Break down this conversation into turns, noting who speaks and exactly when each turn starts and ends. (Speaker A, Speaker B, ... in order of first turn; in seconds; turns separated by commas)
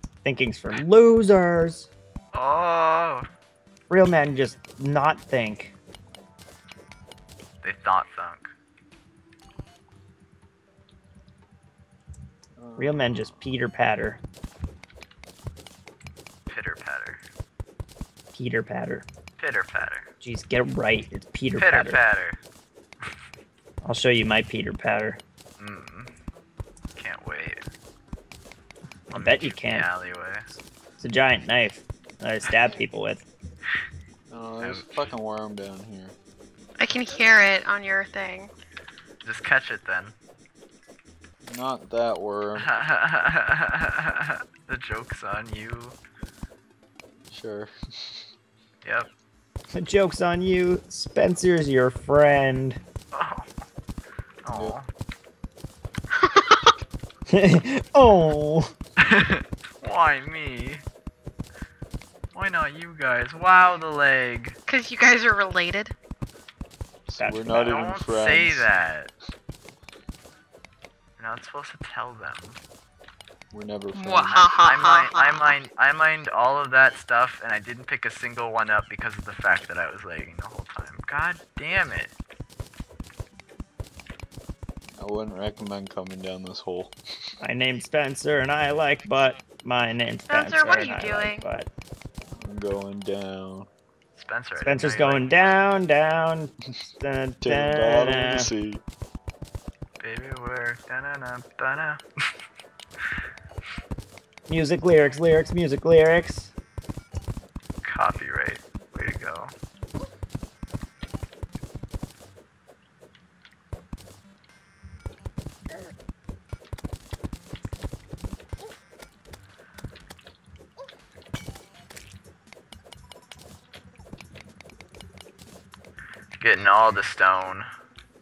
Speaker A: 0.2-1.9, Speaker B: 2.3-3.2, Speaker A: 3.9-5.7, Speaker B: 7.6-8.5, Speaker C: 12.6-13.6, Speaker A: 12.8-14.2, Speaker B: 16.5-17.2, Speaker A: 18.3-19.1, Speaker B: 19.4-20.1, Speaker A: 20.2-22.0, Speaker B: 21.6-22.4, Speaker A: 23.8-25.2, Speaker B: 25.6-26.1, Speaker B: 26.9-27.6, Speaker A: 29.1-29.9, Speaker B: 29.1-30.5, Speaker A: 31.0-33.2, Speaker C: 34.3-36.1, Speaker B: 34.6-35.2, Speaker D: 36.8-38.5, Speaker B: 39.2-40.2, Speaker C: 41.5-42.7, Speaker B: 42.6-46.0, Speaker C: 47.3-48.2, Speaker B: 48.8-49.1, Speaker A: 49.7-52.8, Speaker B: 53.1-53.5, Speaker B: 54.4-54.9, Speaker C: 54.5-54.8, Speaker D: 56.1-56.7, Speaker A: 57.3-58.7, Speaker B: 59.0-60.8, Speaker B: 62.3-64.6, Speaker D: 64.7-65.9, Speaker C: 67.1-68.7, Speaker A: 67.2-67.9, Speaker B: 67.7-69.1, Speaker B: 71.2-72.6, Speaker C: 73.5-74.5, Speaker D: 74.0-75.6, Speaker B: 74.6-82.1, Speaker C: 85.0-87.0, Speaker A: 87.4-91.7, Speaker D: 90.3-91.5, Speaker C: 92.4-93.7, Speaker B: 94.2-95.8, Speaker A: 94.6-98.5, Speaker C: 97.4-98.8, Speaker B: 100.0-102.0, Speaker A: 104.5-106.5, Speaker B: 107.8-109.5, Speaker B: 126.4-127.7